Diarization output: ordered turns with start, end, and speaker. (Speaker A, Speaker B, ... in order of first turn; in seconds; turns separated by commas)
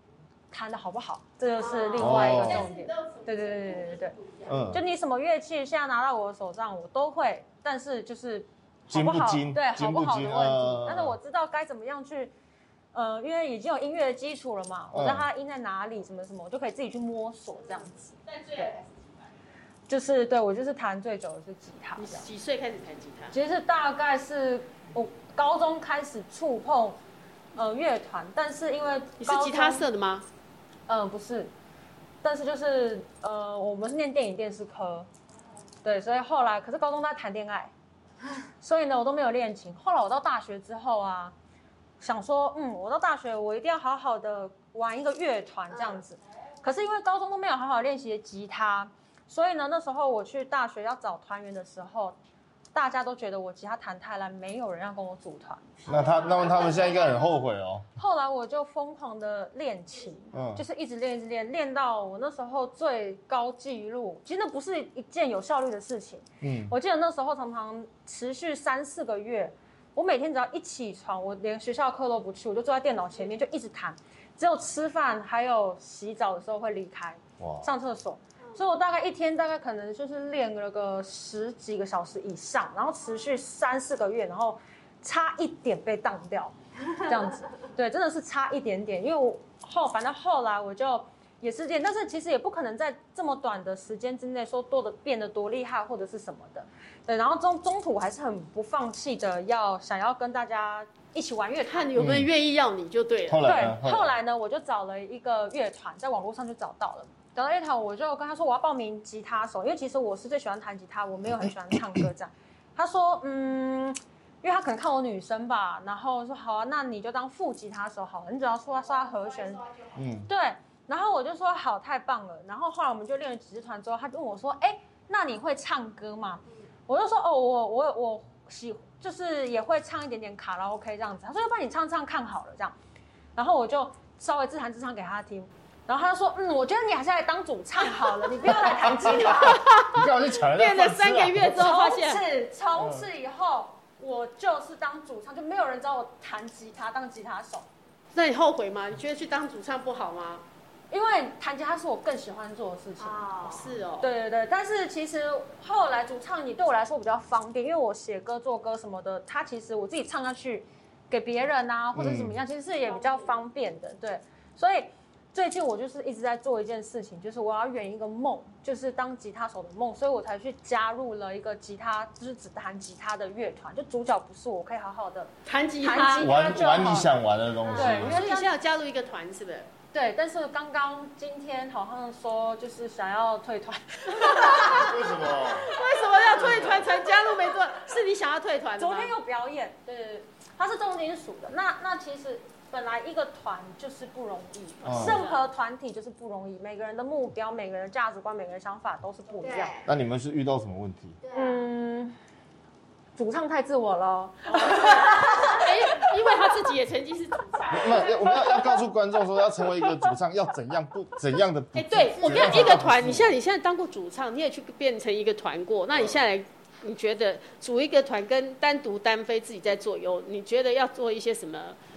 Speaker A: 0.5-4.2, Speaker B: 1.6-2.3, Speaker C: 1.6-4.6, Speaker D: 2.0-2.7, Speaker D: 4.5-4.8, Speaker A: 4.7-12.3, Speaker D: 8.9-11.2, Speaker A: 12.9-18.7, Speaker D: 14.9-15.3, Speaker C: 18.2-19.3, Speaker A: 19.9-22.3, Speaker C: 22.0-23.4, Speaker A: 23.3-27.0, Speaker A: 27.6-29.9, Speaker C: 29.2-30.3, Speaker A: 30.9-31.5, Speaker A: 32.2-35.1, Speaker A: 35.8-37.7, Speaker A: 38.6-41.3, Speaker A: 42.0-52.2, Speaker B: 45.7-46.0, Speaker A: 52.7-56.2, Speaker D: 55.9-57.9, Speaker B: 55.9-57.2, Speaker A: 58.0-101.9, Speaker D: 60.3-60.6, Speaker D: 66.4-66.8, Speaker D: 77.4-77.7, Speaker C: 101.7-103.5, Speaker D: 102.0-102.3, Speaker D: 103.3-104.1, Speaker A: 103.4-119.6, Speaker D: 111.3-112.0, Speaker B: 119.1-120.1, Speaker D: 120.0-120.3, Speaker A: 120.3-132.7, Speaker A: 133.3-139.7, Speaker D: 138.5-141.7, Speaker C: 139.4-142.2, Speaker A: 141.5-147.7, Speaker D: 142.7-143.1, Speaker C: 148.1-150.4, Speaker A: 150.9-153.2, Speaker B: 153.0-153.8, Speaker C: 153.4-154.1, Speaker A: 154.0-177.1, Speaker D: 161.9-162.4, Speaker C: 175.5-176.6, Speaker D: 176.2-178.2, Speaker B: 177.6-178.0, Speaker A: 177.7-178.5, Speaker C: 177.7-179.7, Speaker A: 179.9-185.7, Speaker C: 184.1-184.9, Speaker D: 184.6-185.7, Speaker C: 185.5-189.1, Speaker D: 186.4-186.9, Speaker A: 188.8-199.7, Speaker C: 194.8-195.4, Speaker D: 194.8-195.2, Speaker B: 199.4-199.9, Speaker D: 199.9-201.2, Speaker B: 201.2-201.6, Speaker A: 201.3-202.2, Speaker A: 203.2-206.1, Speaker C: 204.5-208.1, Speaker D: 207.7-213.4, Speaker C: 211.8-221.8, Speaker B: 212.2-212.8